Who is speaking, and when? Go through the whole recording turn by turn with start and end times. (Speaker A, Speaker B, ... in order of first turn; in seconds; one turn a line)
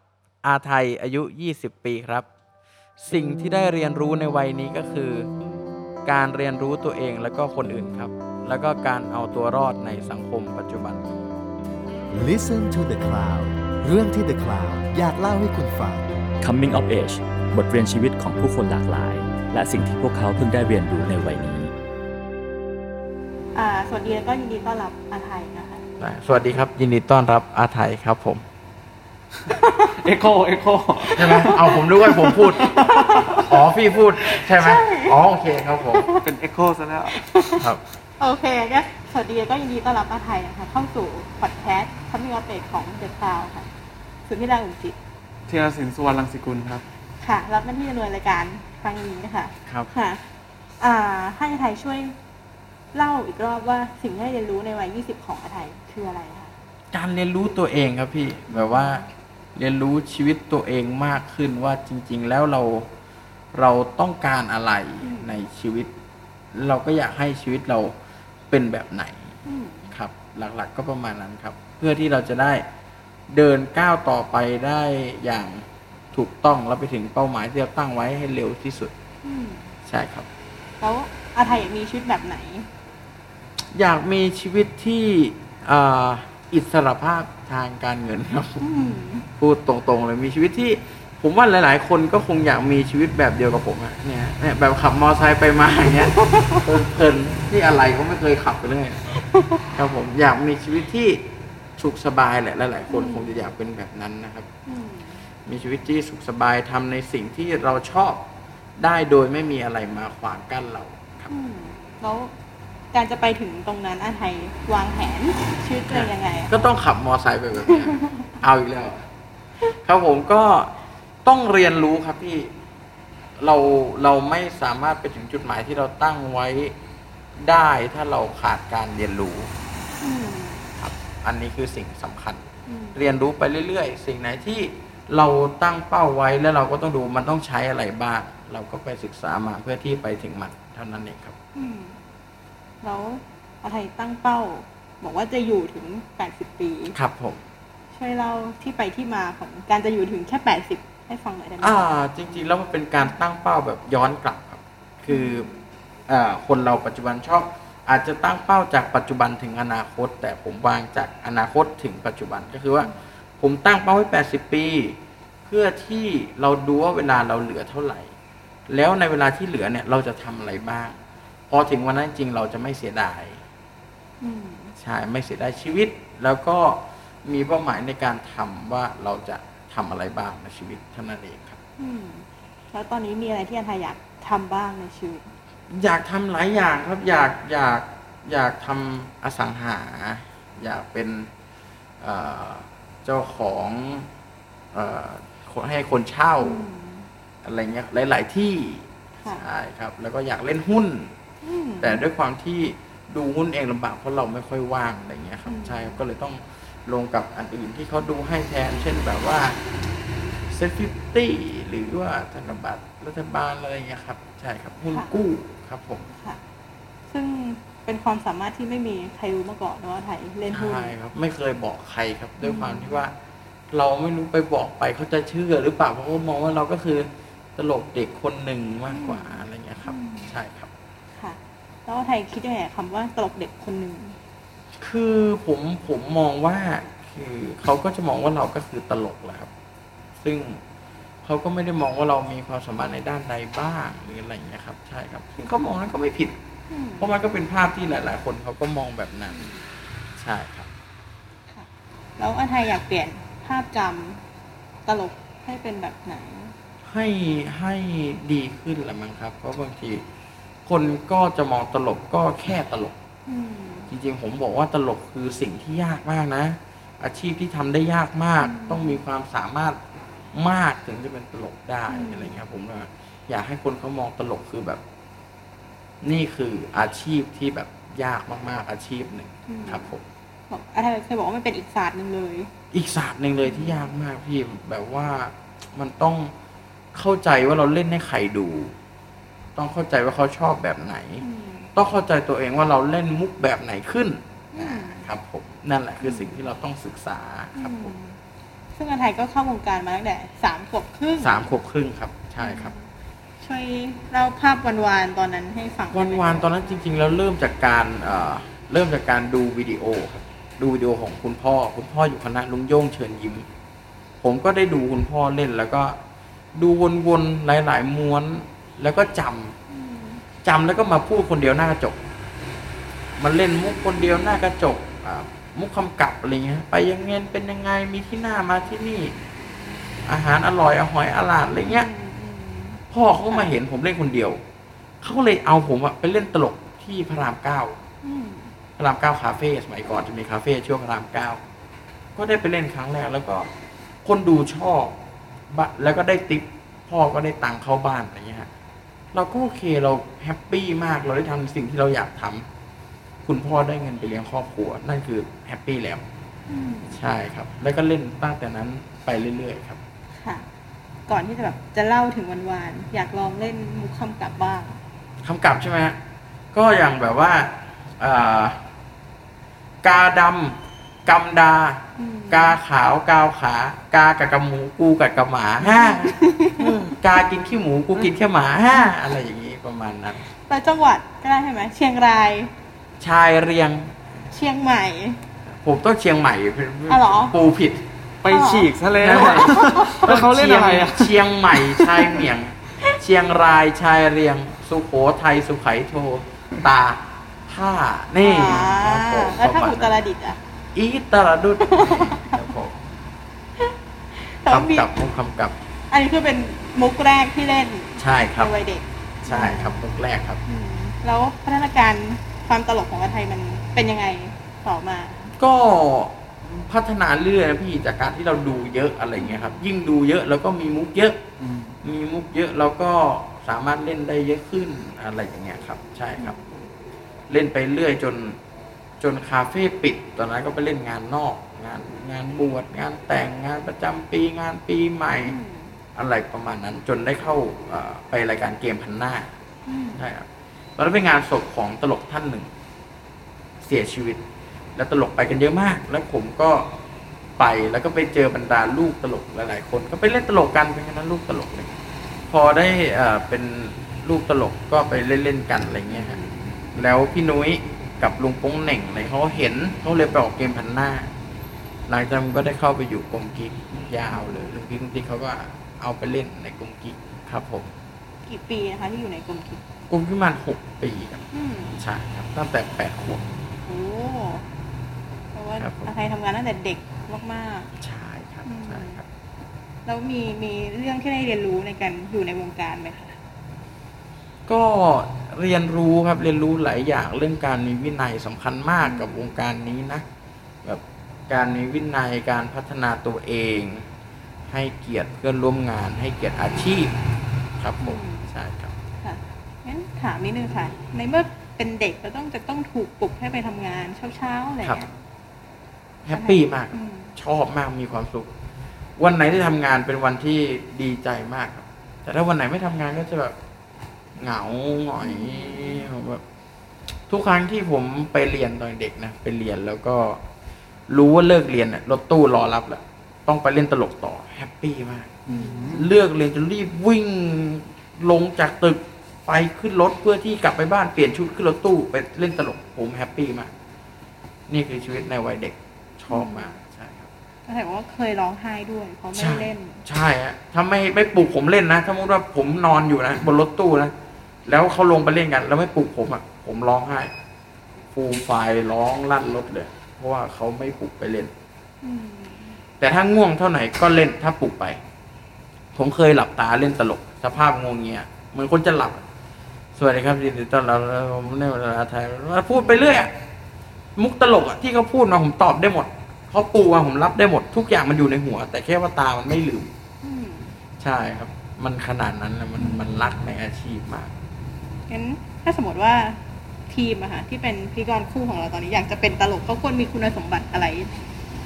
Speaker A: 0.4-2.3
Speaker A: 3.0-5.3
Speaker A: 6.0-11.1
Speaker B: 12.1-16.2
Speaker C: 16.4-21.7
Speaker D: 23.5-25.8
Speaker A: 26.0-28.4
Speaker D: 29.5-29.9
Speaker E: 29.9-31.7
Speaker D: 31.0-33.5
Speaker A: 31.1-36.1
Speaker E: 32.4-33.5
Speaker D: 34.3-35.2
Speaker D: 35.9-36.3
Speaker E: 36.2-37.2
Speaker D: 37.1-37.7
Speaker D: 38.2-43.7
Speaker D: 44.3-45.0
Speaker E: 45.5-46.8
Speaker D: 47.2-50.3
Speaker D: 50.8-52.1
Speaker D: 52.9-56.5
Speaker A: 56.9-62.9
Speaker D: 58.5-59.0
Speaker A: 63.5-65.9
Speaker D: 65.0-65.3
Speaker A: 66.5-67.9
Speaker A: 68.5-69.4
Speaker D: 69.4-69.9
Speaker A: 69.9-72.7
Speaker A: 73.3-78.9
Speaker D: 79.2-79.7
Speaker A: 79.8-80.3
Speaker D: 80.8-82.7
Speaker A: 83.7-88.6
Speaker D: 88.6-89.3
Speaker A: 89.4-99.1
Speaker D: 96.1-96.6
Speaker D: 99.3-99.6
Speaker A: 99.7-101.2
Speaker A: 101.8-104.5
Speaker D: 102.9-103.3
Speaker D: 104.7-105.2
Speaker A: 105.5-108.2
Speaker A: 108.8-111.3
Speaker D: 111.3-112.3
Speaker D: 112.9-116.5
Speaker A: 115.9-119.0
Speaker D: 117.7-118.3
Speaker A: 119.7-122.5
Speaker A: 123.4-126.7
Speaker A: 127.4-129.5
Speaker D: 130.0-130.7
Speaker A: 130.8-141.3
Speaker D: 132.7-133.0
Speaker D: 141.5-142.0
Speaker D: 142.8-146.9
Speaker A: 146.9-147.4
Speaker D: 147.9-151.9
Speaker A: 151.6-155.5
Speaker D: 155.1-155.5
Speaker A: 156.1-168.1
Speaker A: 168.7-171.0
Speaker A: 171.5-173.4
Speaker D: 174.2-174.7
Speaker A: 174.8-181.6
Speaker D: 181.8-185.3
Speaker A: 185.7-191.3
Speaker A: 192.0-194.1
Speaker A: 194.7-196.6
Speaker D: 196.4-197.1
Speaker A: 197.4-201.1
Speaker D: 201.4-202.0
Speaker A: 201.8-209.6
Speaker D: 205.4-206.0
Speaker A: 210.5-216.1
Speaker D: 214.9-215.1
Speaker D: 216.1-216.4
Speaker D: 217.1-220.9
Speaker A: 220.5-223.1
Speaker D: 222.4-223.0
Speaker A: 223.7-230.7
Speaker D: 228.9-230.3
Speaker D: 231.1-234.2
Speaker A: 234.8-239.5
Speaker A: 240.2-240.6
Speaker A: 241.2-246.4
Speaker D: 246.7-247.1
Speaker A: 247.0-249.4
Speaker D: 249.3-249.7
Speaker A: 250.2-250.7
Speaker D: 251.5-254.2
Speaker D: 254.8-256.5
Speaker A: 256.9-260.0
Speaker A: 260.6-263.0
Speaker D: 263.2-263.9
Speaker A: 263.9-269.8
Speaker D: 268.4-269.0
Speaker A: 270.3-274.8
Speaker D: 271.9-272.4
Speaker A: 276.0-280.0
Speaker D: 279.5-279.9
Speaker D: 280.5-282.5
Speaker A: 282.7-286.3
Speaker D: 283.4-283.9
Speaker A: 286.9-288.7
Speaker A: 289.5-297.9
Speaker D: 291.2-291.7
Speaker D: 294.5-295.1
Speaker D: 296.0-296.5
Speaker D: 297.6-298.2
Speaker D: 298.7-301.6
Speaker A: 301.2-302.7
Speaker D: 302.4-302.9
Speaker D: 303.4-306.5
Speaker A: 305.9-313.5
Speaker A: 314.2-316.0
Speaker A: 316.5-319.6
Speaker D: 319.7-320.2
Speaker A: 320.4-322.0
Speaker A: 323.2-329.1
Speaker A: 330.0-331.9
Speaker D: 331.6-333.5
Speaker A: 332.9-334.4
Speaker A: 335.0-337.8
Speaker D: 338.0-338.5
Speaker A: 338.8-341.4
Speaker A: 342.1-343.5
Speaker A: 344.0-344.9
Speaker A: 345.5-348.5
Speaker A: 349.1-352.5
Speaker A: 353.2-356.0
Speaker D: 356.5-357.0
Speaker A: 356.9-359.8
Speaker D: 360.2-360.5
Speaker D: 361.1-364.8
Speaker A: 365.2-366.0
Speaker A: 366.5-368.6
Speaker A: 369.8-380.3
Speaker D: 371.9-372.6
Speaker D: 375.6-376.8
Speaker D: 380.5-382.5
Speaker A: 383.0-384.2
Speaker D: 384.3-385.2
Speaker A: 385.4-387.9
Speaker D: 386.9-387.3
Speaker E: 388.2-391.2
Speaker D: 388.3-390.1
Speaker A: 389.0-399.9
Speaker D: 398.2-400.4
Speaker A: 400.7-402.8
Speaker D: 401.6-402.3
Speaker D: 403.6-404.9
Speaker A: 404.5-405.5
Speaker D: 405.9-409.8
Speaker A: 408.0-408.5
Speaker A: 409.2-410.4
Speaker D: 410.4-415.3
Speaker A: 415.4-421.2
Speaker D: 419.1-419.6
Speaker E: 421.4-421.8
Speaker A: 421.8-426.4
Speaker D: 426.2-426.7
Speaker A: 427.3-428.4
Speaker A: 429.0-435.4
Speaker D: 435.2-435.8
Speaker A: 435.9-439.3
Speaker D: 439.7-440.0
Speaker A: 439.9-442.5
Speaker A: 443.6-444.2
Speaker A: 444.7-446.7
Speaker A: 447.4-451.8
Speaker A: 452.3-456.2
Speaker D: 455.9-456.5
Speaker A: 456.7-461.1
Speaker A: 461.9-467.7
Speaker D: 464.1-464.4
Speaker D: 468.2-469.6
Speaker A: 469.9-471.2
Speaker D: 471.3-471.8
Speaker A: 471.8-473.3
Speaker D: 473.6-474.4
Speaker D: 475.3-477.7
Speaker A: 475.6-475.9
Speaker A: 477.8-479.1
Speaker D: 478.4-479.0
Speaker D: 479.9-483.2
Speaker A: 484.5-490.1
Speaker D: 488.8-489.2
Speaker A: 490.6-493.9
Speaker A: 494.5-496.9
Speaker A: 497.6-498.7
Speaker D: 497.8-498.3
Speaker D: 499.0-504.9
Speaker A: 506.0-508.3
Speaker D: 506.1-507.1
Speaker A: 509.0-513.4
Speaker A: 514.1-516.2
Speaker D: 515.0-515.9
Speaker A: 517.1-520.2
Speaker A: 520.9-533.5
Speaker E: 525.2-525.9
Speaker D: 525.3-525.8
Speaker A: 534.5-537.1
Speaker D: 536.1-536.6
Speaker D: 537.5-539.8
Speaker A: 539.1-543.9
Speaker A: 544.5-547.1
Speaker A: 547.9-551.3
Speaker D: 551.8-552.6
Speaker A: 552.8-554.8
Speaker A: 555.7-559.0
Speaker A: 559.7-563.1
Speaker D: 562.5-563.0
Speaker A: 564.0-569.7
Speaker D: 570.0-570.6
Speaker A: 570.8-574.1
Speaker D: 572.6-572.9
Speaker D: 574.9-581.0